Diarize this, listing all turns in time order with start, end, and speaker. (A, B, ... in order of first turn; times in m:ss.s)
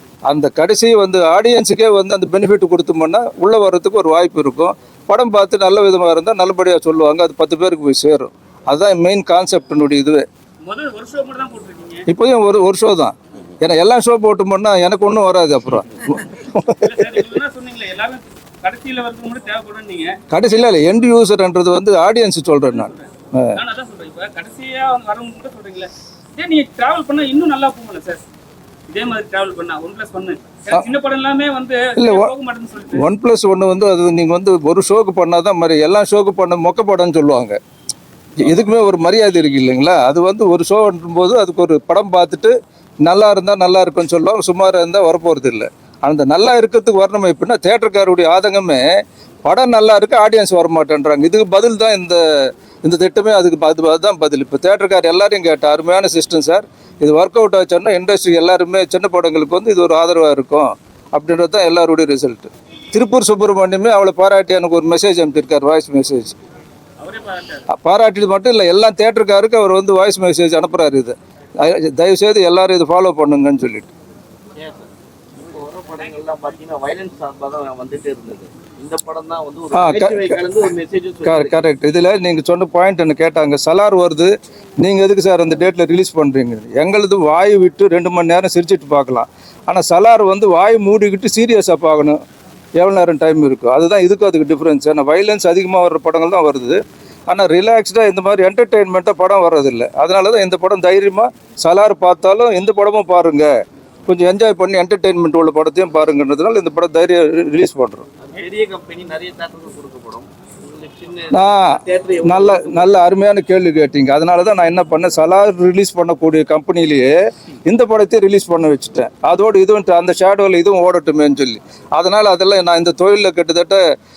0:00.3-0:10.2 A
0:10.6-0:12.1 B
0:12.1-0:17.2 A
0:16.8-0:20.2 B
0:20.3-0:23.6 A
0:22.6-0:28.2 B
0:28.9-0:33.0 B
0:32.0-0:32.3 A
0:32.9-0:37.6 A
0:38.4-0:42.5 A
0:43.0-0:48.8 A
0:49.4-0:52.2 A
0:52.8-1:06.4 A
1:07.0-1:07.6 B
1:07.7-1:13.9 A
1:14.6-1:14.9 C
1:15.4-1:21.7 C
1:19.7-1:20.5 A
1:21.2-1:32.2 A
1:32.8-1:43.5 A
1:44.1-1:48.1 A
1:48.2-1:53.0 C
1:51.3-1:51.6 A
1:52.2-1:57.1 A
1:57.7-2:03.8 A